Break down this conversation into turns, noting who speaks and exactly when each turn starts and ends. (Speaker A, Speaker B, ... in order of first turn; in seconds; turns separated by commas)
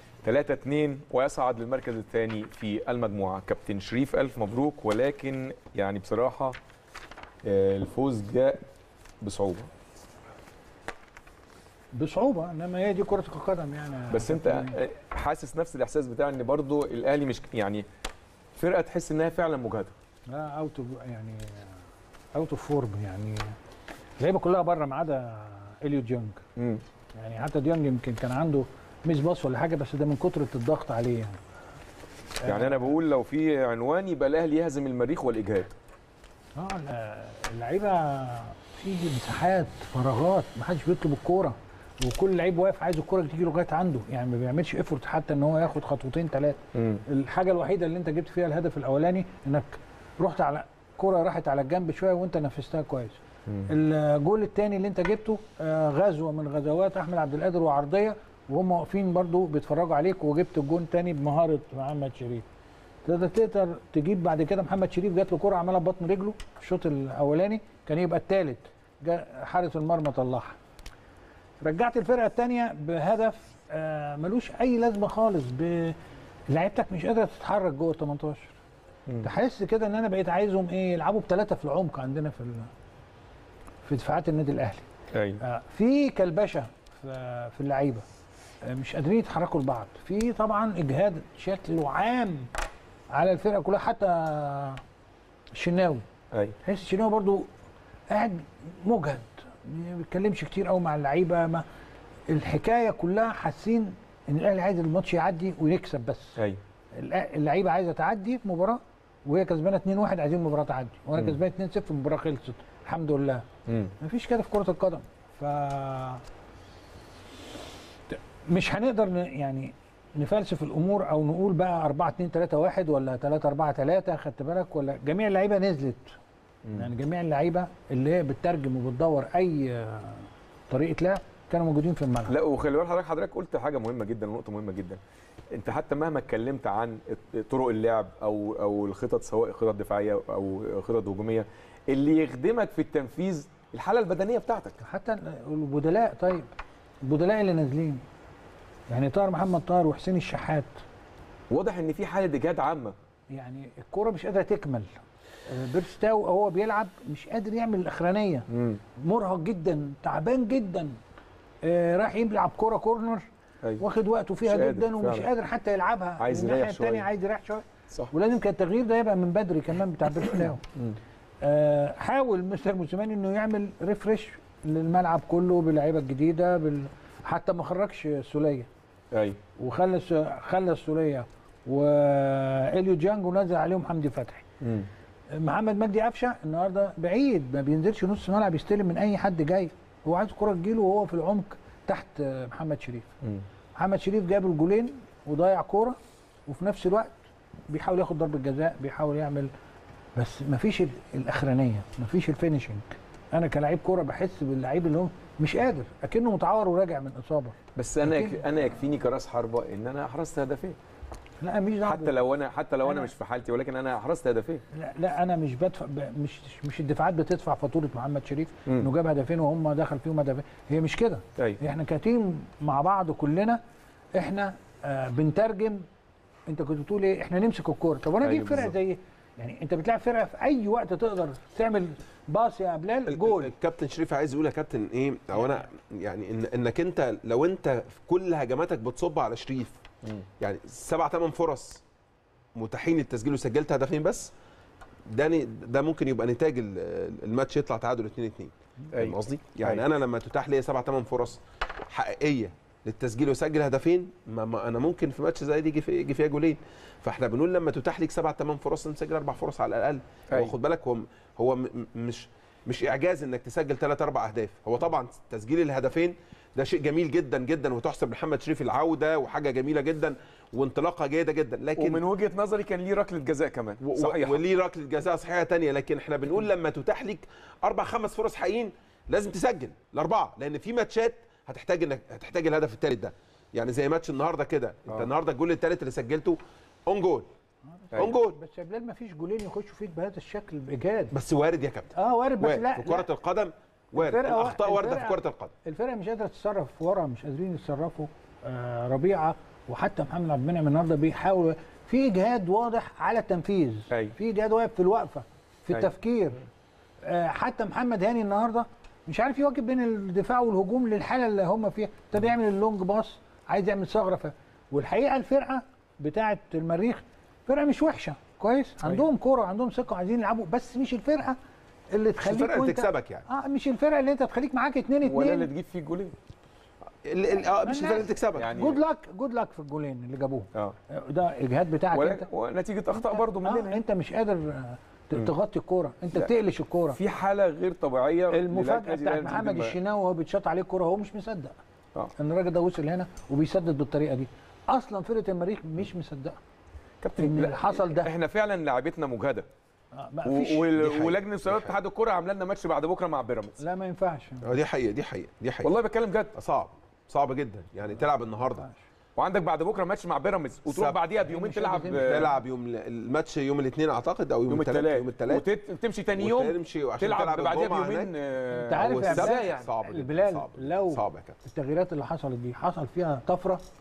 Speaker A: 0.2-6.6, Speaker A: 7.5-8.6, Speaker A: 9.2-9.7, Speaker B: 11.9-14.8, Speaker A: 14.1-17.9, Speaker A: 18.6-19.9, Speaker B: 20.3-21.7, Speaker B: 22.4-23.6, Speaker B: 24.2-26.4, Speaker A: 26.6-26.8, Speaker B: 27.2-31.4, Speaker B: 32.5-32.9, Speaker A: 32.5-35.7, Speaker B: 36.6-62.5, Speaker A: 46.8-47.0, Speaker B: 63.0-70.6, Speaker B: 71.6-76.0, Speaker B: 76.5-78.5, Speaker B: 79.2-82.7, Speaker B: 83.9-84.8, Speaker A: 85.1-85.4, Speaker B: 85.4-88.0, Speaker B: 88.7-92.5, Speaker B: 93.1-94.8, Speaker B: 95.6-96.0, Speaker B: 96.6-97.5, Speaker B: 98.1-101.6, Speaker B: 102.3-106.3, Speaker B: 107.0-113.5, Speaker A: 113.7-113.9, Speaker B: 114.0-116.2, Speaker B: 118.1-126.2, Speaker B: 126.8-132.4, Speaker A: 132.3-135.0, Speaker A: 135.5-144.8, Speaker B: 144.8-146.5, Speaker B: 147.1-148.0, Speaker B: 148.9-150.7, Speaker A: 151.5-152.9, Speaker B: 153.3-154.9, Speaker B: 155.5-158.5, Speaker A: 158.5-158.8, Speaker B: 159.0-160.9, Speaker B: 161.7-163.2, Speaker B: 163.8-170.6, Speaker A: 164.5-165.3, Speaker A: 166.2-167.1, Speaker A: 170.2-171.0, Speaker B: 171.4-178.7, Speaker A: 179.1-179.4, Speaker B: 179.6-184.4, Speaker A: 184.6-184.9, Speaker B: 185.3-193.1, Speaker B: 193.8-197.2, Speaker B: 197.7-199.5, Speaker B: 200.2-208.4, Speaker A: 207.8-210.8, Speaker B: 211.4-212.1, Speaker A: 211.8-214.6, Speaker B: 212.8-213.1, Speaker B: 214.7-223.6, Speaker B: 224.2-225.8, Speaker B: 226.5-233.5, Speaker A: 228.2-228.7, Speaker C: 233.1-239.8, Speaker C: 240.4-241.8, Speaker C: 242.6-244.3, Speaker C: 245.1-272.0, Speaker A: 248.9-249.8, Speaker A: 271.8-274.4, Speaker C: 273.8-287.3, Speaker B: 287.8-291.1, Speaker C: 288.0-288.4, Speaker C: 291.1-295.5, Speaker B: 292.0-293.1, Speaker B: 294.0-306.4, Speaker B: 307.0-321.4, Speaker B: 321.9-325.5, Speaker C: 322.2-323.3, Speaker A: 325.0-326.1, Speaker C: 327.1-328.6, Speaker B: 327.6-332.3, Speaker A: 328.4-328.8, Speaker A: 331.9-333.8, Speaker B: 332.9-337.0, Speaker A: 336.9-339.8, Speaker B: 338.3-341.6, Speaker B: 342.2-346.4, Speaker A: 347.0-349.5, Speaker B: 347.2-348.1, Speaker B: 350.0-350.6, Speaker A: 350.2-353.6, Speaker C: 350.8-351.8, Speaker B: 353.6-354.5, Speaker C: 354.4-355.7, Speaker A: 355.6-356.3, Speaker C: 356.4-358.7, Speaker A: 359.2-362.3, Speaker C: 360.7-361.0, Speaker B: 361.3-362.3, Speaker C: 361.9-365.4, Speaker A: 364.5-369.6, Speaker C: 366.2-368.1, Speaker B: 368.6-373.6, Speaker C: 368.8-371.4